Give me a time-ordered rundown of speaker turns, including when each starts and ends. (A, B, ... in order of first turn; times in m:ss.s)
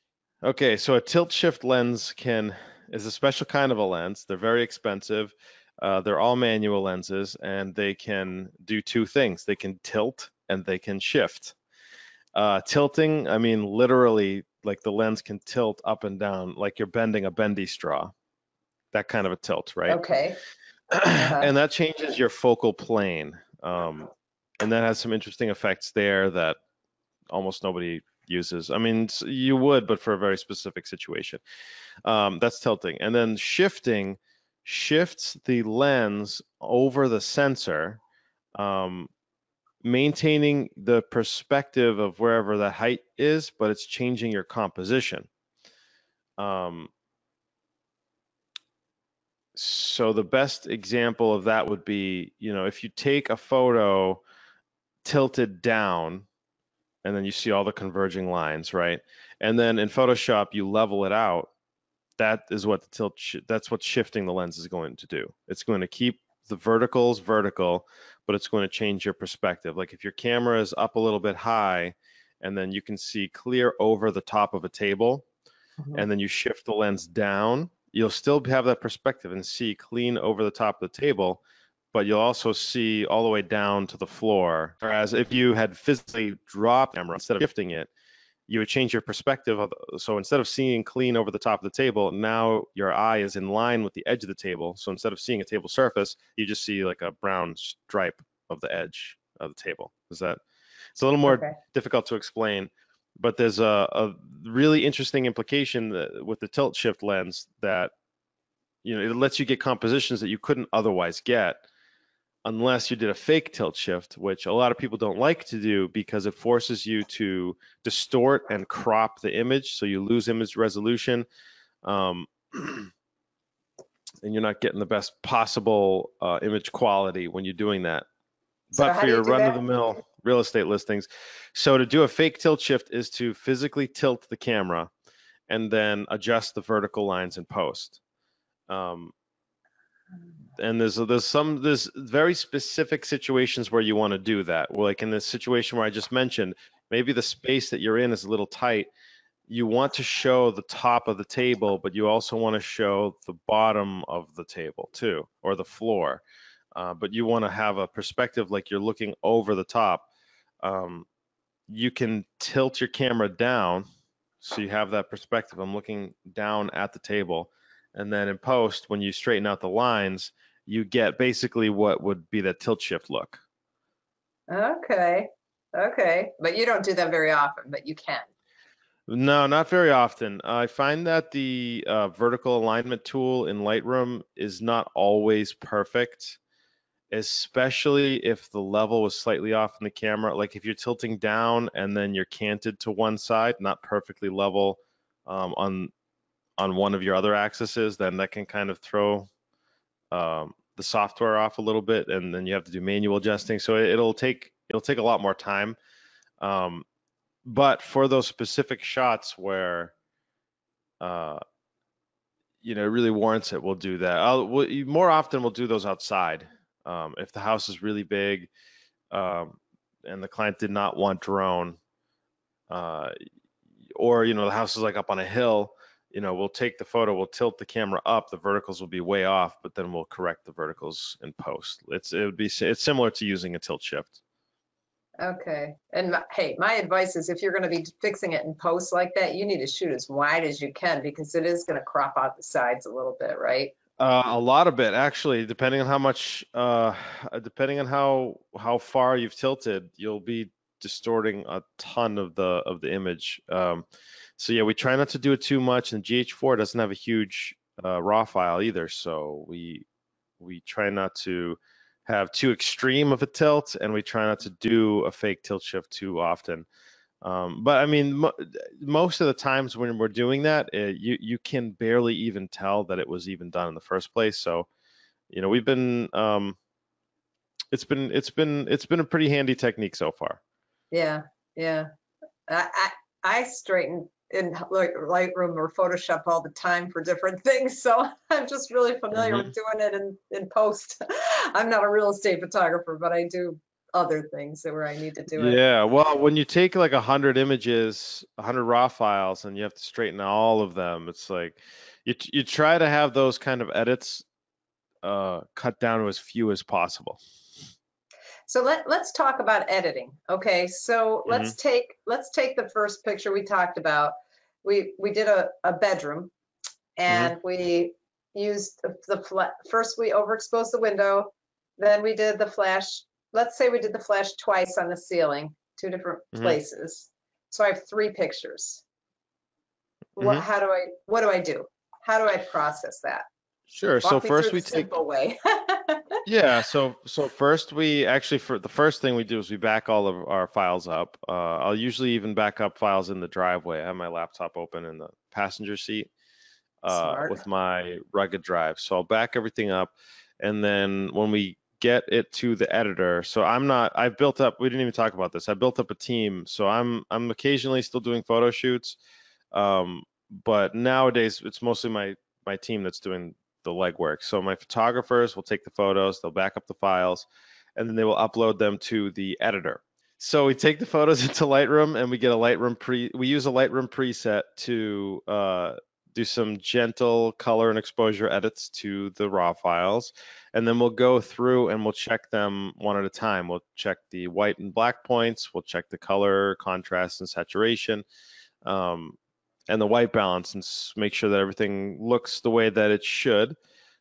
0:00.4-0:11.6 A
0:12.3-0:18.1 A
0:18.9-0:20.0 A
0:19.9-0:20.4 B
0:20.9-0:26.6 A
0:21.1-0:21.5 B
0:27.3-0:31.4 A
0:32.0-0:38.0 A
0:38.6-0:39.1 A
0:39.8-0:45.3 A
0:46.4-0:46.9 A
0:49.5-0:54.2 A
0:55.0-0:56.3 A
0:57.0-1:01.5 A
1:02.2-1:15.2 A
1:15.9-1:21.4 A
1:21.9-1:27.9 A
1:28.5-1:40.4 A
1:41.0-1:47.9 A
1:41.2-1:41.6 B
1:48.8-1:51.6 A
1:52.4-2:01.2 A
2:01.8-2:02.9 A
2:04.2-2:08.0 A
2:08.7-2:14.9 A
2:08.7-2:09.6 B
2:15.5-2:18.0 A
2:18.7-2:19.1 A
2:20.6-2:28.9 A
2:29.5-2:36.2 A
2:36.7-2:40.1 A
2:40.6-2:41.1 A
2:41.7-2:43.8 A
2:44.4-2:53.4 A
2:54.5-2:58.3 B
2:59.1-3:06.4 A
3:07.1-3:15.9 A
3:16.6-3:19.3 A
3:20.1-3:25.8 A
3:26.4-3:26.9 A
3:27.4-3:29.9 A
3:31.0-3:31.4 A
3:32.6-3:38.5 A
3:39.1-3:41.8 A
3:42.7-3:43.1 A
3:43.9-3:54.2 A
3:55.2-4:03.7 B
4:04.0-4:13.9 A
4:14.4-4:19.9 A
4:20.4-4:26.7 A
4:27.2-4:34.7 A
4:35.3-4:36.6 A
4:37.7-4:40.4 A
4:40.9-4:41.9 B
4:42.5-4:55.6 B
4:49.1-4:49.5 A
4:55.4-5:04.2 A
5:05.0-5:07.2 A
5:08.5-5:16.3 B
5:11.3-5:11.5 A
5:17.0-5:28.8 B
5:26.3-5:26.6 A
5:30.2-5:33.2 B
5:33.7-5:34.9 A
5:34.0-5:36.2 B
5:36.2-5:46.1 A
5:46.8-5:59.0 A
5:46.9-5:47.4 B
5:59.5-6:28.0 A
6:28.6-6:29.2 A
6:29.7-6:33.6 A